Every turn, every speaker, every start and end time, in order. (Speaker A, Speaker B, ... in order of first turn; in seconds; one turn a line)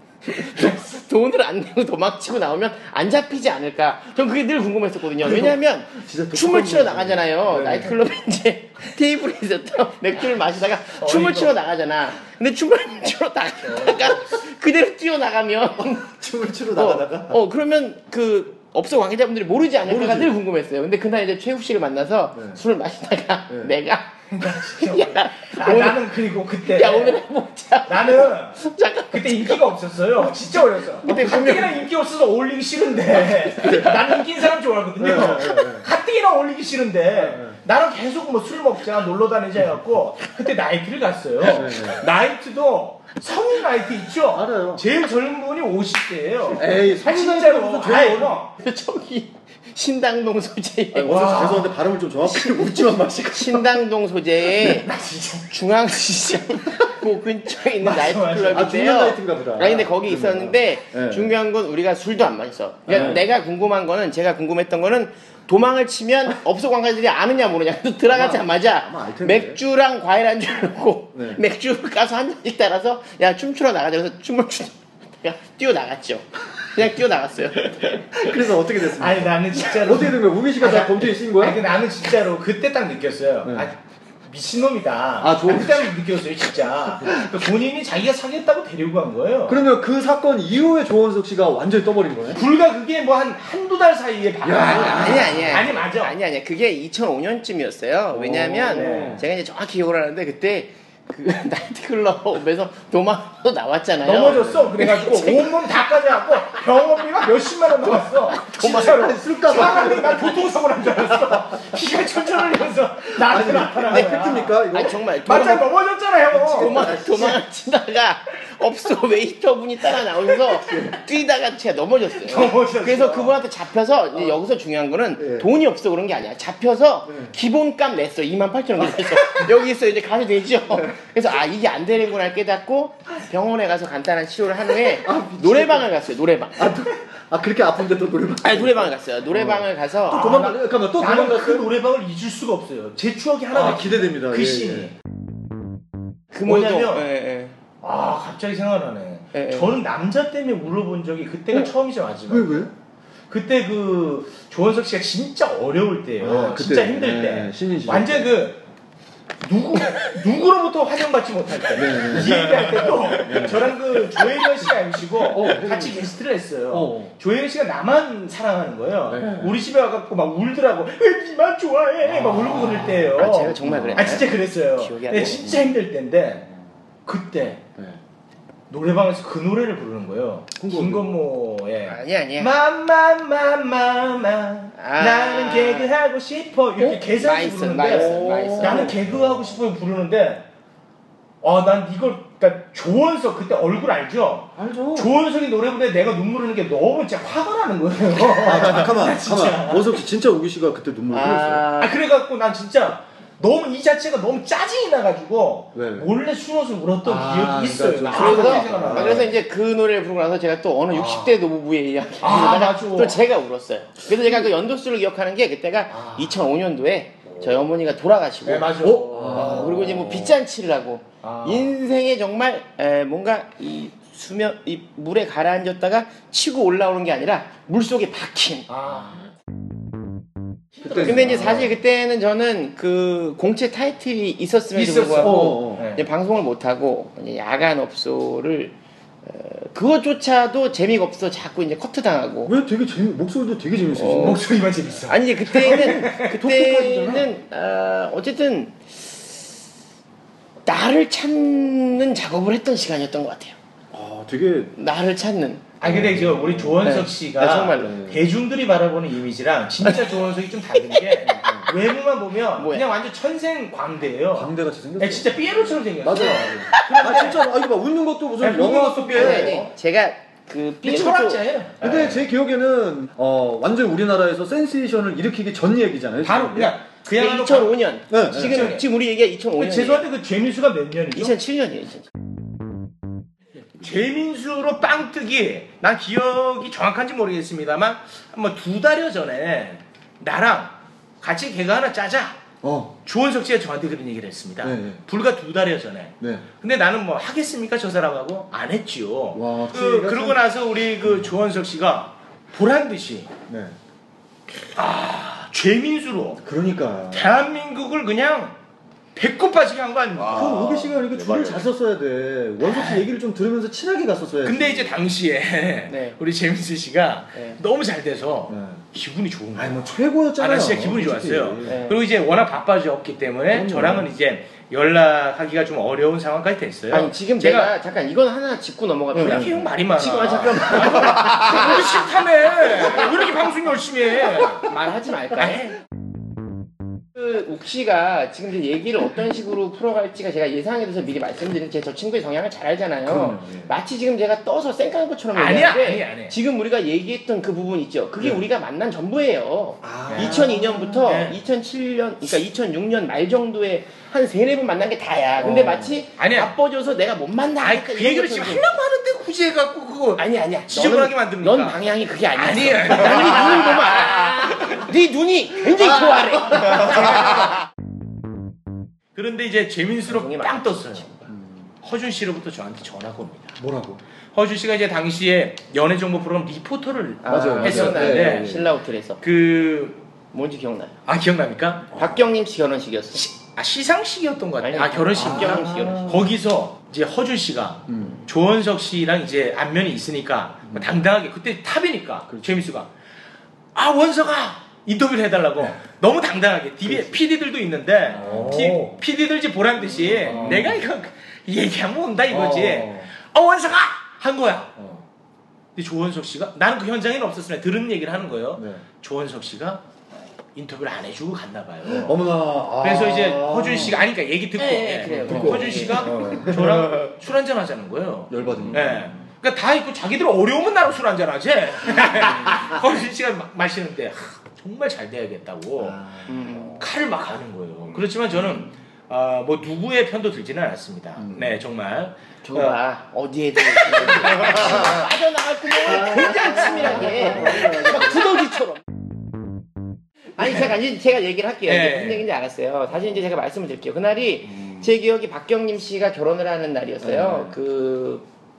Speaker A: 0.2-26.1
Speaker B: 5.2-8.0
Speaker C: 11.0-11.5
Speaker C: 13.6-14.4
Speaker B: 16.0-17.4
Speaker B: 19.9-20.3
Speaker B: 22.3-22.6
Speaker B: 23.5-23.7
Speaker C: 24.3-27.2
Speaker A: 26.6-29.7
Speaker C: 27.9-48.5
Speaker A: 30.9-31.8
Speaker B: 31.1-31.4
Speaker A: 33.4-34.1
Speaker B: 33.6-33.9
Speaker B: 35.0-35.9
Speaker B: 37.2-37.6
Speaker B: 41.5-42.0
Speaker B: 44.3-44.8
Speaker B: 46.6-48.4
Speaker A: 48.6-51.7
Speaker B: 50.9-53.7
Speaker C: 51.1-51.7
Speaker A: 52.2-54.9
Speaker C: 54.5-55.5
Speaker A: 55.5-78.3
Speaker C: 57.8-58.7
Speaker B: 58.5-61.3
Speaker B: 62.9-63.2
Speaker B: 68.1-69.6
Speaker B: 71.1-71.4
Speaker B: 78.1-81.6
Speaker C: 78.9-89.6
Speaker B: 83.5-83.7
Speaker B: 85.2-85.9
Speaker B: 89.5-92.4
Speaker C: 92.3-96.2
Speaker B: 94.4-95.6
Speaker A: 94.6-105.7
Speaker B: 98.1-99.2
Speaker C: 98.7-99.2
Speaker C: 104.0-114.5
Speaker B: 104.2-104.7
Speaker A: 108.3-109.1
Speaker B: 108.6-110.4
Speaker B: 111.1-111.8
Speaker B: 113.2-115.0
Speaker A: 113.9-115.7
Speaker C: 115.2-116.9
Speaker B: 116.3-117.4
Speaker A: 116.5-136.7
Speaker C: 122.2-123.4
Speaker B: 125.2-125.5
Speaker B: 127.1-127.3
Speaker B: 134.9-135.9
Speaker B: 136.6-141.7
Speaker A: 138.4-140.5
Speaker C: 140.1-144.9
Speaker B: 143.5-144.9
Speaker A: 146.3-147.6
Speaker C: 146.4-147.1
Speaker C: 147.8-152.7
Speaker A: 149.3-149.7
Speaker B: 152.3-152.7
Speaker C: 153.3-158.6
Speaker B: 156.2-158.3
Speaker C: 159.4-176.5
Speaker B: 161.7-163.8
Speaker B: 165.3-166.1
Speaker B: 166.7-167.1
Speaker B: 169.1-169.6
Speaker B: 172.1-174.3
Speaker A: 173.2-175.6
Speaker C: 177.1-177.6
Speaker C: 178.7-190.5
Speaker B: 180.6-181.2
Speaker A: 181.8-182.5
Speaker A: 184.8-185.9
Speaker A: 186.8-189.0
Speaker B: 187.9-189.5
Speaker C: 191.4-199.9
Speaker B: 194.6-195.1
Speaker B: 198.4-201.7
Speaker A: 201.1-202.0
Speaker C: 201.8-209.3
Speaker B: 205.7-206.1
Speaker B: 207.0-209.3
Speaker A: 208.1-218.8
Speaker C: 210.9-211.3
Speaker C: 212.2-213.2
Speaker C: 215.9-216.4
Speaker C: 218.4-219.8
Speaker B: 218.8-220.3
Speaker A: 219.3-228.7
Speaker C: 221.2-221.7
Speaker C: 228.7-229.3
Speaker C: 230.8-231.7
Speaker B: 230.8-231.7
Speaker A: 231.0-242.5
Speaker C: 234.7-236.1
Speaker B: 235.2-235.9
Speaker B: 242.5-244.5
Speaker A: 243.9-244.5
Speaker C: 244.2-246.3
Speaker A: 245.1-249.3
Speaker B: 246.3-247.3
Speaker A: 250.7-253.6
Speaker B: 253.9-254.7
Speaker A: 254.8-255.7
Speaker C: 255.8-267.5
Speaker B: 255.8-256.9
Speaker A: 256.8-258.0
Speaker B: 257.8-258.2
Speaker B: 261.3-261.7
Speaker A: 262.6-262.9
Speaker B: 264.3-269.6
Speaker C: 268.4-269.7
Speaker A: 269.1-271.4
Speaker C: 270.8-272.2
Speaker B: 271.8-276.8
Speaker C: 276.2-278.9
Speaker A: 277.1-280.1
Speaker B: 278.1-278.8
Speaker C: 279.6-281.4
Speaker A: 281.1-282.1
Speaker C: 283.8-292.4
Speaker B: 292.6-292.9
Speaker C: 293.1-303.3
Speaker B: 294.6-295.0
Speaker B: 296.2-296.5
Speaker B: 299.4-300.4
Speaker B: 303.5-303.8
Speaker C: 304.8-306.4
Speaker B: 306.4-307.3
Speaker C: 307.1-308.6
Speaker C: 309.1-311.6
Speaker B: 310.2-315.0
Speaker C: 312.6-313.0
Speaker C: 314.4-327.7
Speaker A: 315.9-316.2
Speaker B: 318.5-318.8
Speaker B: 319.6-321.8
Speaker A: 321.7-322.0
Speaker B: 323.5-324.1
Speaker A: 326.9-332.1
Speaker C: 329.1-334.7
Speaker B: 329.2-329.5
Speaker A: 334.5-335.7
Speaker C: 335.4-335.8
Speaker A: 337.2-358.7
Speaker B: 343.1-343.7
Speaker C: 345.3-346.4
Speaker B: 349.8-351.2
Speaker C: 350.1-350.5
Speaker C: 351.0-351.4
Speaker B: 355.4-356.0
Speaker C: 356.2-356.5
Speaker C: 357.6-364.8
Speaker A: 360.2-367.4
Speaker C: 366.5-367.6
Speaker C: 369.1-371.1
Speaker A: 370.1-371.2
Speaker B: 371.3-371.7
Speaker C: 371.8-373.6
Speaker B: 373.6-374.0
Speaker C: 374.3-378.6
Speaker A: 377.2-379.2
Speaker B: 377.3-378.7
Speaker C: 379.2-380.0
Speaker A: 380.3-381.0
Speaker C: 381.1-382.1
Speaker A: 381.9-383.2
Speaker C: 383.1-392.9
Speaker A: 384.6-386.1
Speaker B: 385.1-386.3
Speaker B: 387.9-388.2
Speaker B: 392.3-392.6
Speaker C: 393.8-404.7
Speaker B: 396.9-397.2
Speaker B: 398.1-398.9
Speaker B: 400.2-400.8
Speaker B: 402.3-403.1
Speaker B: 404.8-405.1
Speaker C: 405.8-409.8
Speaker B: 408.6-408.8
Speaker C: 410.5-412.2
Speaker B: 412.0-414.0
Speaker C: 412.8-426.1
Speaker A: 414.6-416.4
Speaker B: 415.3-417.1
Speaker B: 418.3-419.2
Speaker B: 425.8-426.7
Speaker A: 426.3-426.8
Speaker C: 426.8-432.8
Speaker B: 431.2-431.6
Speaker A: 432.4-438.8
Speaker C: 433.9-435.0
Speaker B: 435.8-438.2
Speaker C: 436.4-437.9
Speaker A: 440.4-448.3
Speaker C: 441.7-442.3
Speaker B: 444.5-444.9
Speaker B: 447.0-447.6